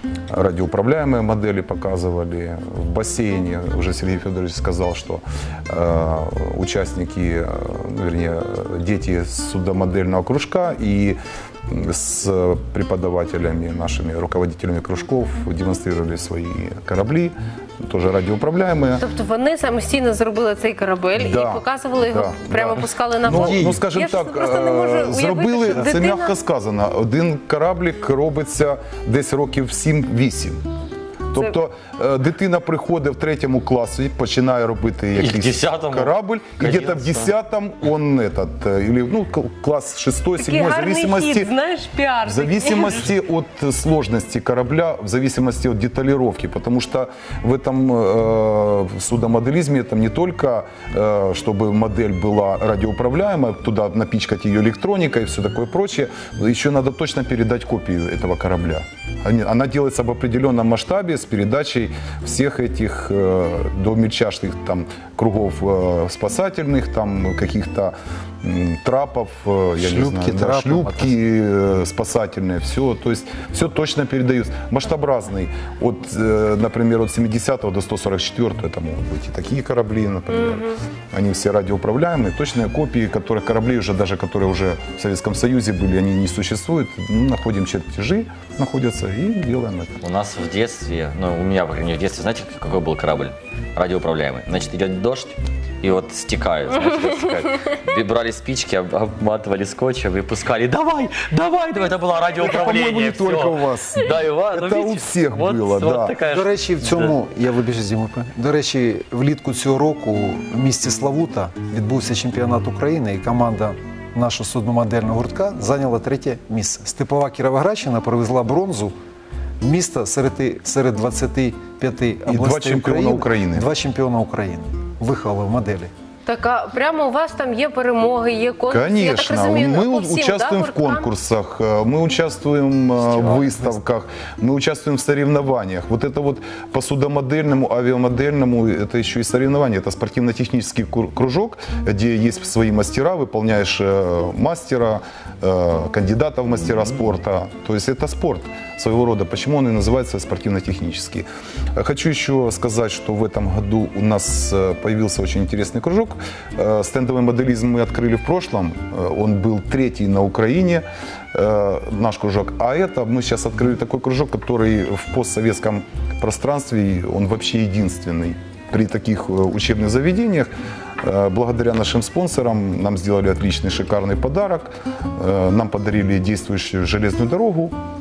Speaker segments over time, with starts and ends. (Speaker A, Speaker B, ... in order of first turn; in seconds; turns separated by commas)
Speaker A: 0.3-19.0, Speaker B: 19.0-26.4, Speaker A: 21.2-30.6, Speaker C: 23.3-23.8, Speaker A: 31.3-41.5, Speaker D: 35.1-37.3, Speaker B: 40.4-43.1, Speaker A: 42.2-90.0, Speaker C: 69.8-71.2, Speaker B: 80.4-80.7, Speaker D: 90.0-107.2, Speaker A: 102.3-106.2, Speaker C: 106.3-118.9, Speaker C: 119.6-125.9, Speaker A: 122.3-123.7, Speaker B: 126.3-131.1, Speaker A: 128.7-177.8, Speaker C: 133.0-133.8